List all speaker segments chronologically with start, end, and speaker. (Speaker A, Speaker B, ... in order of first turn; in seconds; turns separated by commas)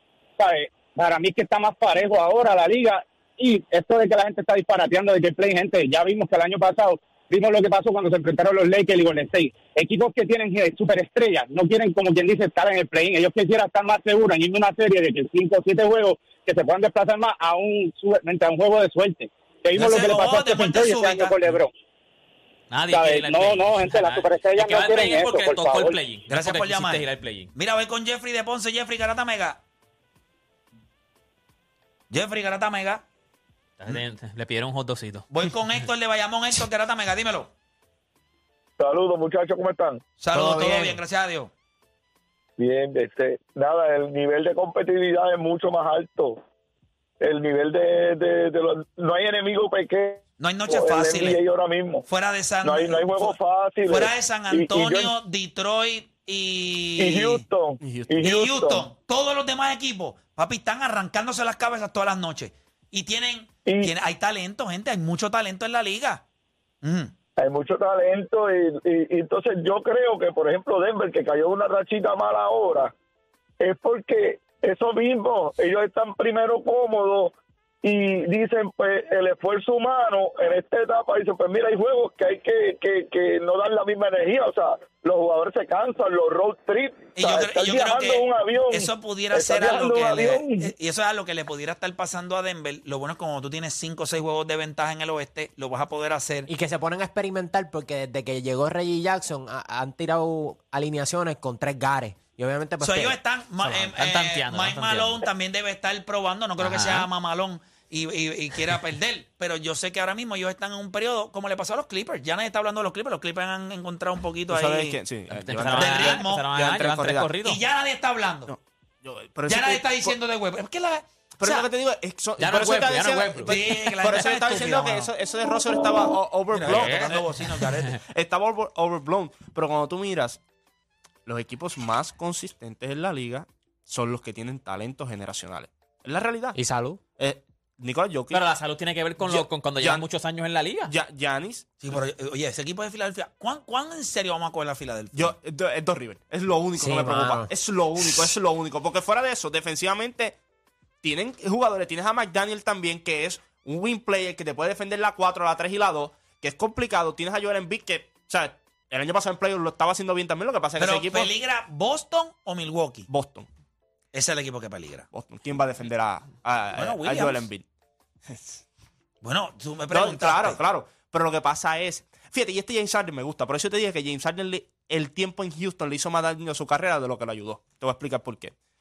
Speaker A: 0.4-21.7, Speaker B: 19.8-21.4, Speaker C: 22.7-27.5, Speaker A: 22.9-26.0, Speaker B: 26.3-29.6, Speaker B: 32.1-33.0, Speaker C: 33.8-35.3, Speaker B: 35.3-37.5, Speaker D: 38.8-40.0, Speaker B: 40.2-41.5, Speaker D: 42.6-46.4, Speaker D: 47.2-52.0, Speaker B: 50.4-51.4, Speaker B: 52.1-57.4, Speaker D: 52.6-55.1, Speaker D: 57.0-58.8, Speaker E: 57.8-58.2, Speaker B: 58.2-66.2, Speaker D: 63.7-63.9, Speaker B: 66.8-67.1, Speaker D: 67.4-72.9, Speaker D: 73.6-90.7, Speaker B: 87.2-96.5, Speaker F: 96.5-103.2, Speaker B: 102.8-115.0, Speaker C: 103.6-105.3, Speaker C: 106.6-107.1, Speaker E: 114.5-117.3, Speaker C: 115.3-117.6, Speaker B: 115.7-116.5, Speaker B: 117.4-118.5, Speaker E: 118.5-120.1, Speaker B: 119.5-121.7, Speaker E: 121.4-127.2, Speaker C: 122.4-123.6, Speaker B: 123.4-125.1, Speaker B: 126.5-128.0, Speaker C: 126.6-127.9, Speaker E: 128.1-130.4, Speaker E: 131.2-136.6, Speaker F: 136.5-137.0, Speaker E: 137.2-138.4, Speaker C: 138.3-140.9, Speaker E: 139.2-140.0, Speaker E: 140.8-141.7, Speaker B: 141.8-145.3, Speaker E: 145.1-150.4, Speaker F: 146.8-147.5, Speaker E: 151.0-161.3, Speaker B: 160.8-163.1, Speaker E: 163.1-163.5, Speaker B: 164.1-165.1, Speaker E: 165.1-167.6, Speaker B: 166.7-167.5, Speaker E: 168.3-168.6, Speaker B: 169.2-170.6, Speaker E: 169.9-178.5